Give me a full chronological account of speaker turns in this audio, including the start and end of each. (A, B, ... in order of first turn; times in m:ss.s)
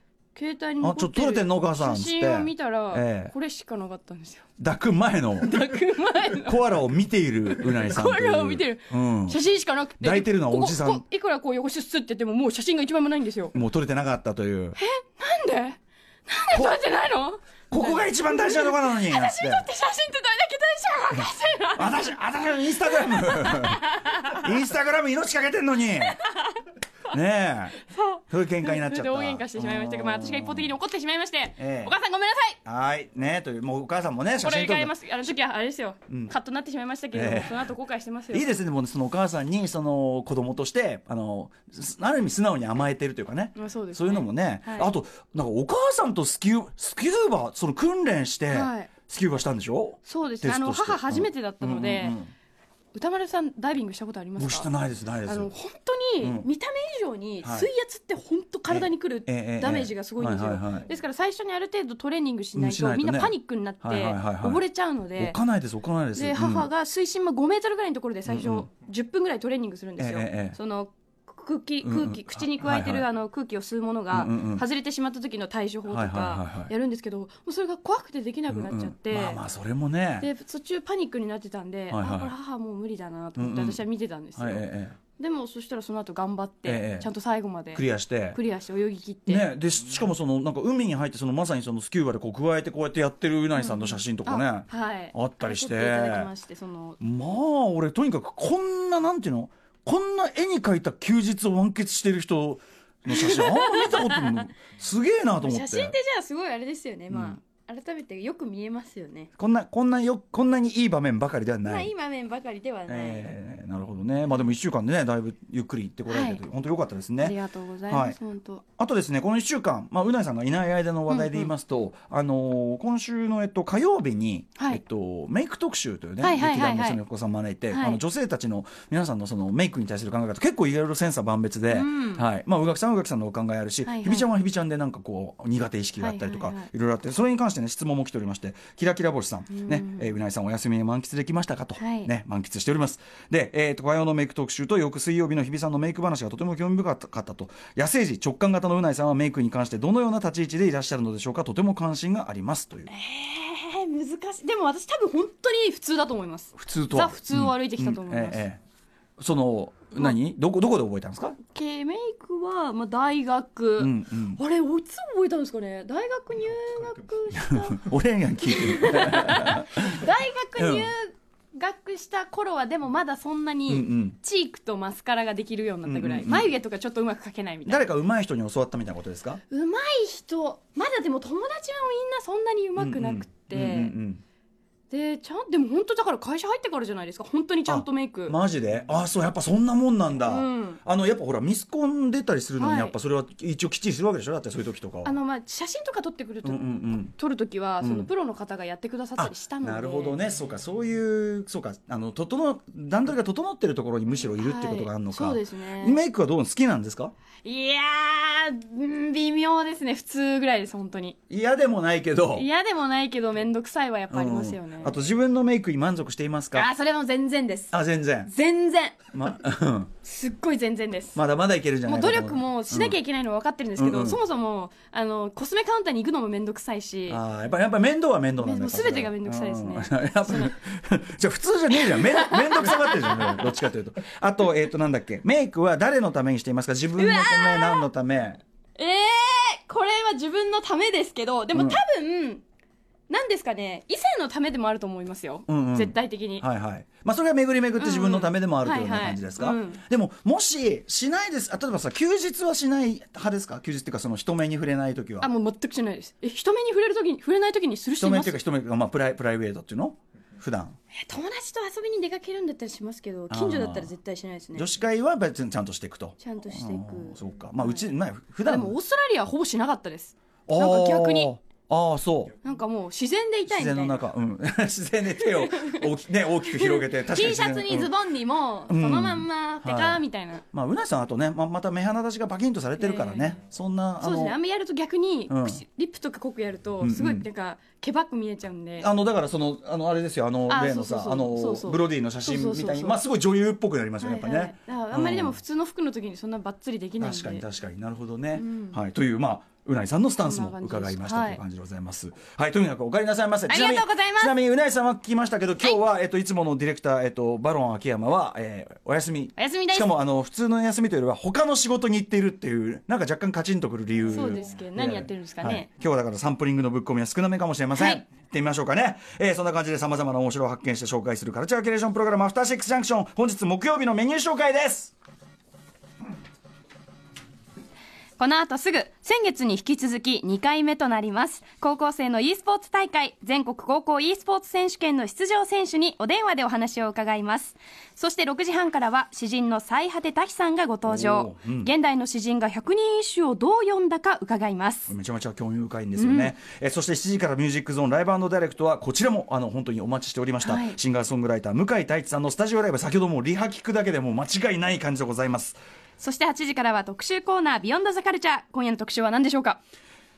0:00.4-0:04.4 A
0:00.8-0:03.3 B
0:04.6-0:05.6 B
0:05.4-0:06.7 A
0:06.3-0:09.4 B
0:07.4-0:13.6 A
0:10.0-0:11.0 B
0:13.5-0:14.8 B
0:14.8-0:24.4 A
0:16.5-0:16.8 B
0:17.7-0:19.6 B
0:21.1-0:26.2 B
0:26.0-0:26.6 A
0:27.1-0:30.7 B
0:27.9-0:32.6 A
0:31.6-0:31.9 B
0:32.6-0:34.9 B
0:34.4-0:38.6 A
0:36.1-0:36.3 B
0:37.1-0:37.7 B
0:38.3-0:52.3 B
0:43.6-0:44.9 A
0:48.5-0:48.9 A
0:50.0-0:52.2 A
0:52.9-0:54.7 A
0:54.4-0:55.5 B
0:55.2-1:05.4 A
0:56.2-0:56.4 B
0:57.4-0:57.7 B
0:58.7-1:00.9 B
1:02.6-1:04.6 B
1:05.2-1:06.7 B
1:06.1-1:19.4 A
1:08.3-1:08.7 B
1:10.0-1:10.6 B
1:11.8-1:13.0 B
1:14.1-1:14.6 B
1:15.9-1:16.7 B
1:18.5-1:20.3 B
1:20.2-1:24.6 A
1:21.9-1:22.3 B
1:23.4-1:23.8 B
1:24.4-1:25.0 B
1:25.2-1:29.5 A
1:26.6-1:27.1 B
1:27.7-1:28.4 B
1:29.3-1:36.3 B
1:33.6-1:37.0 A
1:37.0-1:46.0 B
1:43.1-1:44.4 A
1:45.4-1:49.3 A
1:47.1-1:47.4 B
1:49.4-1:51.9 B
1:51.6-1:53.3 A
1:52.9-1:57.4 B
1:56.1-1:56.4 A
1:57.2-1:58.6 A
1:57.9-1:58.2 B
1:58.8-2:32.9 B
2:01.1-2:01.5 A
2:06.2-2:07.0 A
2:07.7-2:08.0 A
2:11.7-2:12.2 A
2:13.9-2:14.3 A
2:16.0-2:16.7 A
2:19.5-2:20.1 A
2:21.8-2:22.1 A
2:32.9-2:38.4 A
2:36.5-2:38.6 B
2:39.2-2:41.4 B
2:41.4-2:47.8 A
2:43.8-2:44.4 B
2:47.3-2:50.0 B
2:48.4-2:57.9 A
2:50.6-2:50.9 B
2:53.7-2:54.2 B
2:55.8-2:56.5 B
2:57.6-2:59.4 B
2:59.5-3:04.0 A
3:02.8-3:04.2 B
3:04.9-3:08.4 A
3:07.7-3:15.1 B
3:10.2-3:10.8 A
3:12.6-3:13.0 A
3:15.0-3:20.2 A
3:16.4-3:17.1 B
3:17.8-3:18.1 B
3:19.2-3:27.1 B
3:24.4-3:26.0 A
3:27.4-3:31.2 A
3:31.3-3:32.5 B
3:32.3-3:35.0 A
3:34.1-3:36.7 B
3:36.5-3:39.0 A
3:37.7-3:38.3 B
3:39.1-3:39.9 B
3:40.0-3:41.2 A
3:41.1-3:43.0 B
3:41.8-3:47.2 A
3:43.8-3:44.2 B
3:47.1-3:58.4 B
3:48.4-3:50.5 A
3:51.9-3:53.5 A
3:57.0-3:57.9 A
3:58.8-4:02.4 A
4:03.1-4:06.4 A
4:05.5-4:15.3 B
4:07.8-4:09.8 A
4:15.2-4:18.4 A
4:18.0-4:20.8 B
4:20.9-4:24.7 A
4:23.3-4:23.9 B
4:24.5-4:28.8 B
4:26.2-4:27.8 A
4:28.4-4:31.3 A
4:30.5-4:32.4 B
4:32.4-4:34.0 A
4:33.5-4:37.9 B
4:35.2-4:35.9 A
4:36.4-4:40.4 A
4:38.7-4:44.4 B
4:42.8-4:43.4 A
4:44.0-4:48.9 A
4:45.3-4:45.6 B
4:46.8-4:47.2 B
4:48.8-4:55.4 B
4:50.5-4:53.0 A
4:54.0-4:57.4 A
4:57.0-5:24.9 B
4:58.4-4:58.8 A
5:00.2-5:01.4 A
5:03.5-5:04.4 A
5:09.4-5:09.9 A
5:14.0-5:15.7 A
5:17.7-5:18.0 A
5:28.2-5:44.9 A
5:40.9-5:41.7 B
5:44.9-5:55.6 B
5:46.0-5:46.3 A
5:50.4-5:50.8 A
5:56.0-5:59.6 A